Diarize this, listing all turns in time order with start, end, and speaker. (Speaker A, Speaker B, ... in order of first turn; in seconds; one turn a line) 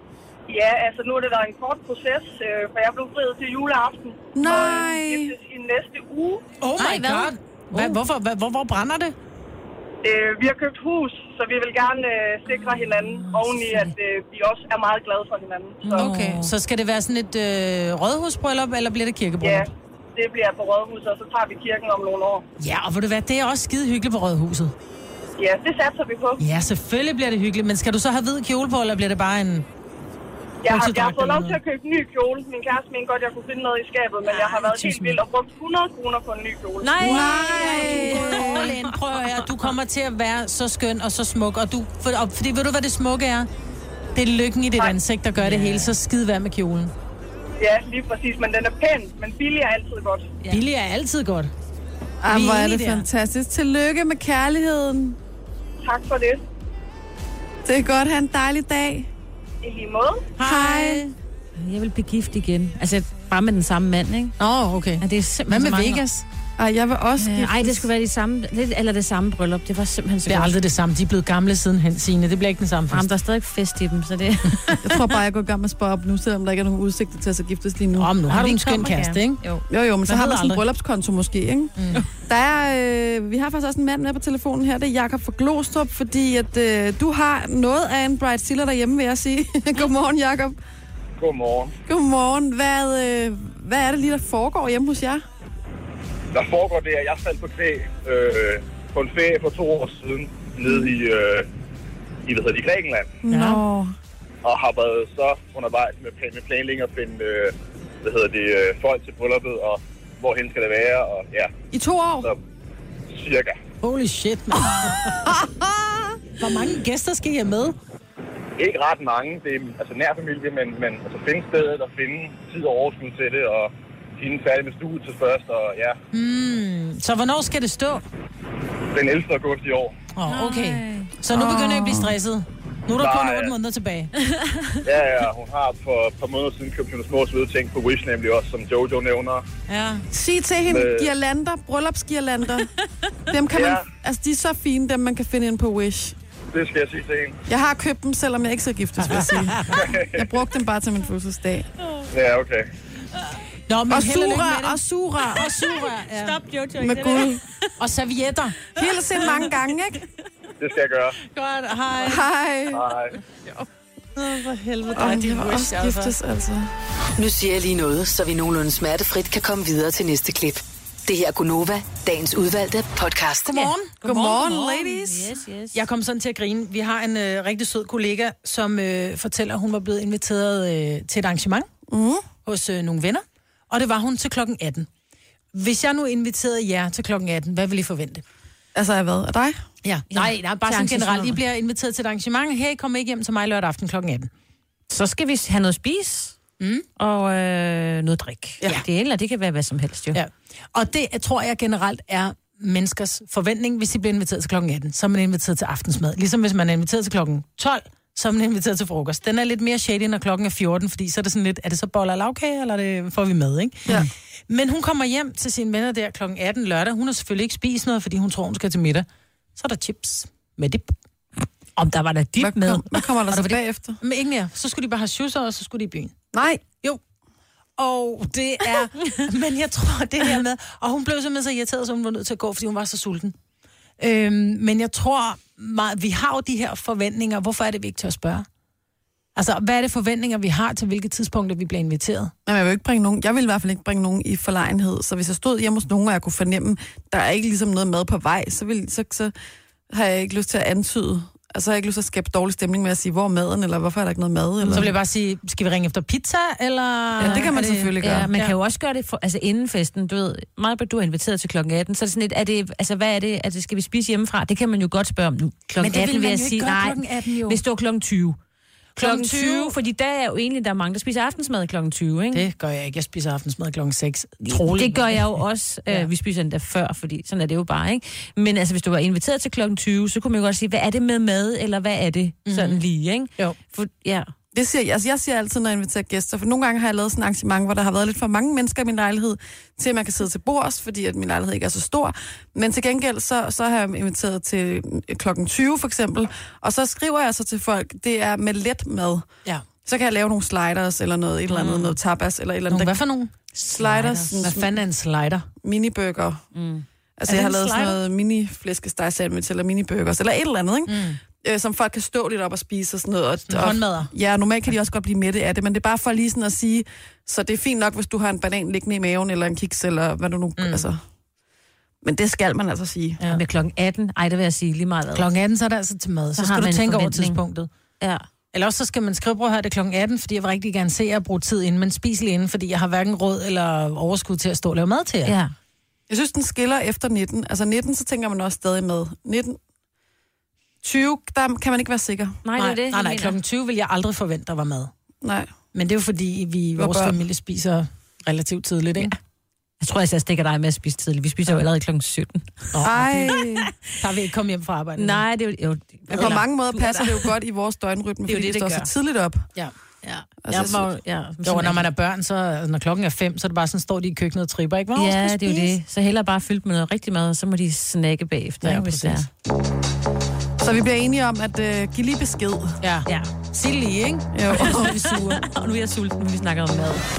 Speaker A: 0.5-6.4
Speaker B: 4.3-5.3
Speaker C: 6.6-9.1
Speaker D: 6.8-8.0
Speaker A: 10.0-16.1
Speaker D: 15.8-16.5
Speaker C: 15.9-19.7
Speaker A: 19.4-22.4
Speaker C: 22.6-24.7
Speaker A: 25.4-26.4
Speaker C: 26.4-29.6
Speaker A: 30.6-37.4
Speaker C: 30.6-31.6
Speaker C: 34.5-35.1
Speaker D: 36.8-38.9
Speaker B: 37.0-38.6
Speaker C: 37.1-43.5
Speaker C: 44.1-46.9
Speaker D: 45.4-46.0
Speaker A: 47.6-50.3
Speaker C: 50.5-51.5
Speaker B: 52.2-55.2
Speaker C: 52.3-53.1
Speaker A: 55.8-56.4
Speaker B: 57.6-59.1
Speaker A: 59.6-60.3
Speaker C: 60.4-61.1
Speaker B: 60.4-61.0
Speaker D: 61.6-64.4
Speaker C: 64.4-66.2
Speaker D: 65.0-66.0
Speaker B: 66.6-67.8
Speaker D: 67.2-70.5
Speaker C: 70.2-73.1
Speaker D: 72.9-74.8
Speaker B: 74.8-78.1
Speaker C: 78.0-79.4
Speaker D: 78.3-79.7
Speaker B: 79.7-81.7
Speaker C: 80.1-80.6
Speaker C: 81.8-82.0
Speaker B: 82.3-90.6
Speaker E: 91.2-91.7
Speaker B: 91.8-95.2
Speaker E: 96.3-101.5
Speaker E: 102.2-103.2
Speaker B: 103.2-103.9
Speaker C: 103.3-103.6
Speaker E: 104.4-111.5
Speaker B: 111.7-112.3
Speaker E: 113.1-113.6
Speaker C: 113.8-115.3
Speaker B: 115.0-116.1
Speaker C: 116.4-117.8
Speaker E: 118.6-126.0
Speaker C: 126.1-128.0
Speaker E: 128.9-129.9
Speaker C: 130.1-134.1
Speaker D: 130.2-131.1
Speaker B: 131.3-132.1
Speaker E: 133.0-133.5
Speaker D: 134.3-134.8
Speaker E: 134.8-139.4
Speaker C: 139.7-140.0
Speaker B: 140.1-142.7
Speaker E: 140.7-141.1
Speaker B: 143.3-146.1
Speaker E: 143.5-143.8
Speaker E: 146.5-147.4
Speaker B: 147.5-151.7
Speaker C: 149.0-149.8
Speaker E: 149.8-150.1
Speaker E: 152.1-152.7
Speaker C: 153.7-156.4
Speaker B: 153.9-155.5
Speaker D: 155.8-157.6
Speaker B: 156.8-157.4
Speaker C: 157.8-158.6
Speaker B: 158.7-160.0
Speaker E: 160.6-161.2
Speaker C: 161.3-162.3
Speaker B: 162.0-162.8
Speaker E: 162.7-163.1
Speaker C: 164.2-166.1
Speaker B: 164.9-166.7
Speaker F: 167.2-173.7
Speaker C: 173.4-174.0
Speaker D: 174.0-175.8
Speaker B: 174.0-175.3
Speaker C: 175.7-181.7
Speaker B: 181.9-182.3
Speaker C: 182.4-184.9
Speaker C: 185.5-188.2
Speaker B: 188.7-189.6
Speaker C: 189.8-194.3
Speaker D: 190.1-191.4
Speaker D: 194.9-196.4
Speaker C: 196.6-196.8
Speaker D: 197.0-200.2
Speaker C: 200.1-220.9
Speaker D: 221.8-223.0
Speaker B: 222.4-224.0
Speaker C: 223.3-226.1
Speaker B: 226.3-226.6
Speaker C: 227.8-233.3
Speaker C: 234.0-238.4
Speaker C: 239.3-242.3
Speaker B: 242.4-249.3
Speaker B: 249.9-254.9
Speaker C: 254.7-258.5
Speaker B: 257.2-258.3
Speaker D: 257.2-257.5
Speaker D: 258.0-268.4
Speaker C: 265.8-267.6
Speaker C: 268.9-269.8
Speaker D: 269.0-272.5
Speaker C: 272.3-276.1
Speaker D: 274.4-284.3
Speaker C: 282.4-282.8
Speaker B: 284.5-299.2
Speaker B: 299.8-303.0
Speaker D: 301.5-302.0
Speaker C: 302.7-303.3
Speaker B: 303.7-304.7
Speaker D: 303.7-304.3
Speaker C: 303.9-305.5
Speaker B: 305.6-306.4
Speaker D: 306.5-306.8
Speaker B: 307.2-321.0
Speaker C: 307.3-308.0
Speaker C: 310.9-311.2
Speaker C: 313.5-314.1
Speaker C: 320.6-320.8
Speaker B: 322.0-323.2
Speaker D: 323.3-325.3
Speaker C: 325.1-327.7
Speaker D: 326.4-327.4
Speaker D: 328.0-328.2
Speaker C: 328.5-335.4
Speaker D: 335.2-335.5
Speaker B: 336.1-339.6
Speaker B: 340.8-342.4
Speaker D: 342.4-343.4
Speaker C: 342.6-344.9
Speaker B: 345.2-345.5
Speaker C: 345.7-349.2
Speaker B: 346.8-347.2
Speaker D: 349.8-353.4
Speaker C: 352.7-353.3
Speaker B: 352.8-353.7
Speaker C: 354.0-355.2
Speaker D: 355.0-357.3
Speaker B: 356.1-359.4
Speaker C: 356.1-356.4
Speaker D: 358.3-358.9
Speaker C: 359.6-360.9
Speaker D: 360.1-361.8
Speaker B: 360.4-360.8
Speaker C: 361.4-365.8
Speaker D: 364.9-369.3
Speaker C: 368.6-369.2
Speaker B: 370.6-372.8
Speaker C: 372.8-375.5
Speaker B: 374.3-374.9
Speaker D: 374.6-377.0